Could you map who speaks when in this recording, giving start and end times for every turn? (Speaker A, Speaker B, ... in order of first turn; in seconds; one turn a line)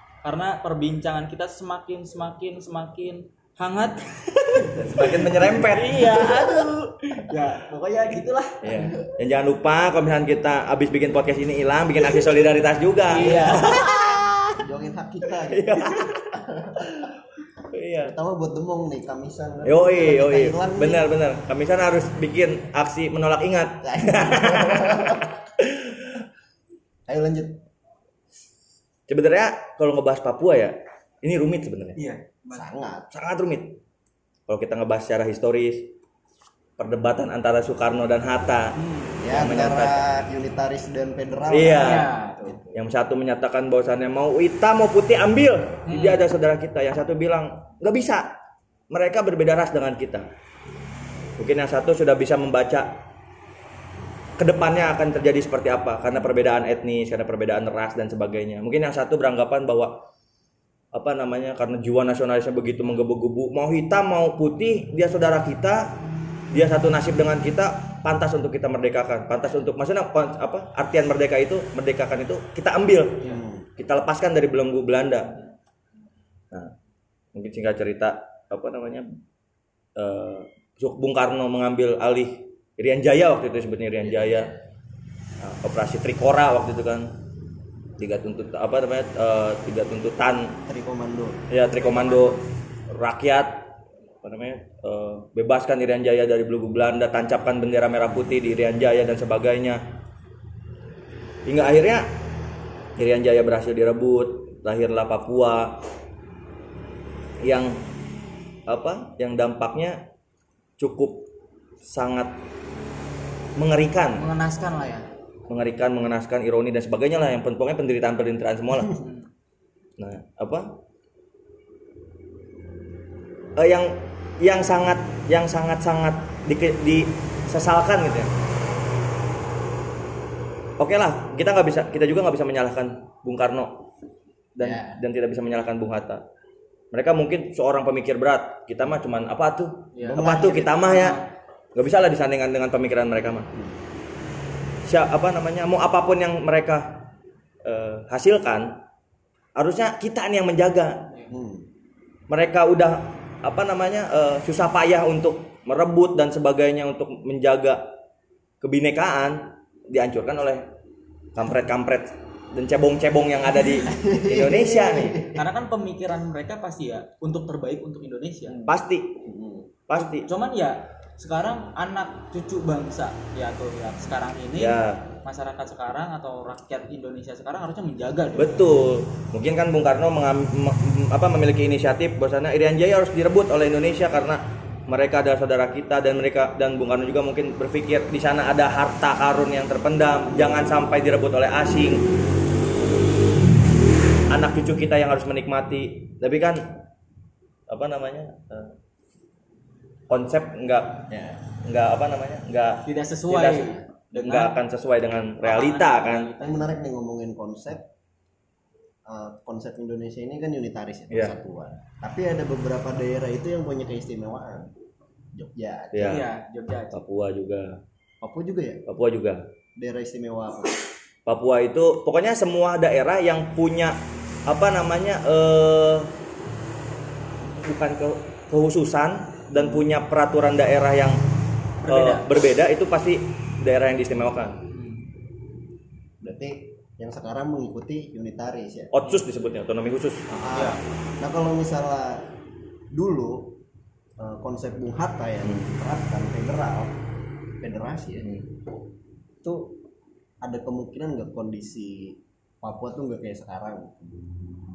Speaker A: 0.2-8.7
Speaker B: 4.9-6.6
Speaker B: 8.6-14.5
Speaker A: 13.1-13.9
Speaker C: 13.2-13.7
Speaker C: 14.6-17.1
Speaker B: 15.5-16.3
Speaker B: 17.7-18.1
Speaker C: 18.0-21.1
Speaker B: 19.6-26.1
Speaker C: 23.8-25.2
Speaker C: 27.1-27.6
Speaker B: 29.1-32.0
Speaker A: 31.9-32.6
Speaker C: 32.5-33.1
Speaker B: 33.1-33.7
Speaker B: 34.5-35.9
Speaker B: 36.8-38.7
Speaker A: 38.7-39.1
Speaker C: 39.2-42.8
Speaker B: 39.2-40.0
Speaker B: 41.5-42.1
Speaker A: 41.7-42.4
Speaker B: 42.7-48.3
Speaker A: 45.9-46.2
Speaker B: 48.9-50.3
Speaker B: 51.4-52.9
Speaker B: 54.4-60.0
Speaker B: 60.9-65.9
Speaker B: 66.5-75.3
Speaker C: 73.2-73.7
Speaker B: 77.3-79.1
Speaker B: 80.0-84.5
Speaker C: 84.0-84.6
Speaker B: 85.4-87.1
Speaker B: 88.0-90.5
Speaker C: 90.7-91.4
Speaker B: 91.5-93.6
Speaker B: 94.2-99.8
Speaker B: 101.5-102.0
Speaker B: 103.0-105.8
Speaker B: 107.4-107.8
Speaker B: 108.7-110.0
Speaker B: 110.8-111.3
Speaker B: 111.8-112.3
Speaker B: 113.5-114.2
Speaker A: 114.2-115.0
Speaker B: 115.5-118.9
Speaker A: 118.9-119.3
Speaker B: 120.0-120.7
Speaker B: 123.6-128.3
Speaker B: 130.8-133.9
Speaker B: 134.5-136.2
Speaker C: 134.6-135.0
Speaker B: 136.9-141.2
Speaker A: 139.9-141.2
Speaker C: 140.0-140.7
Speaker B: 141.7-143.5
Speaker B: 144.9-147.0
Speaker B: 147.6-148.8
Speaker B: 149.6-151.0
Speaker C: 151.3-151.7
Speaker B: 152.3-157.9
Speaker B: 158.6-160.6
Speaker B: 161.3-165.3
Speaker C: 163.7-165.4
Speaker A: 165.3-168.6
Speaker B: 168.6-169.2
Speaker C: 169.2-169.7
Speaker B: 169.9-170.3
Speaker A: 170.0-178.7
Speaker B: 174.6-175.0
Speaker B: 178.3-192.0
Speaker B: 194.3-196.8
Speaker B: 197.7-198.7
Speaker B: 200.1-201.1
Speaker C: 201.1-201.4
Speaker B: 201.6-206.3
Speaker A: 202.8-204.5
Speaker A: 205.4-206.6
Speaker C: 206.4-207.9
Speaker C: 209.1-214.7
Speaker C: 215.3-216.2
Speaker B: 215.9-216.3
Speaker A: 216.0-217.0
Speaker B: 216.9-217.8
Speaker C: 218.2-218.8
Speaker B: 218.9-219.4
Speaker C: 219.8-220.8
Speaker B: 221.2-223.9
Speaker B: 224.5-226.1
Speaker B: 227.6-231.2
Speaker C: 229.5-229.9
Speaker A: 231.8-232.2
Speaker B: 231.8-234.6
Speaker A: 234.7-235.0
Speaker C: 236.2-238.9
Speaker B: 238.9-240.2
Speaker C: 240.3-242.3
Speaker A: 240.6-240.8
Speaker C: 242.9-243.6
Speaker C: 244.2-247.0
Speaker B: 245.4-245.7
Speaker C: 247.6-248.3
Speaker C: 249.4-249.7
Speaker C: 250.4-254.2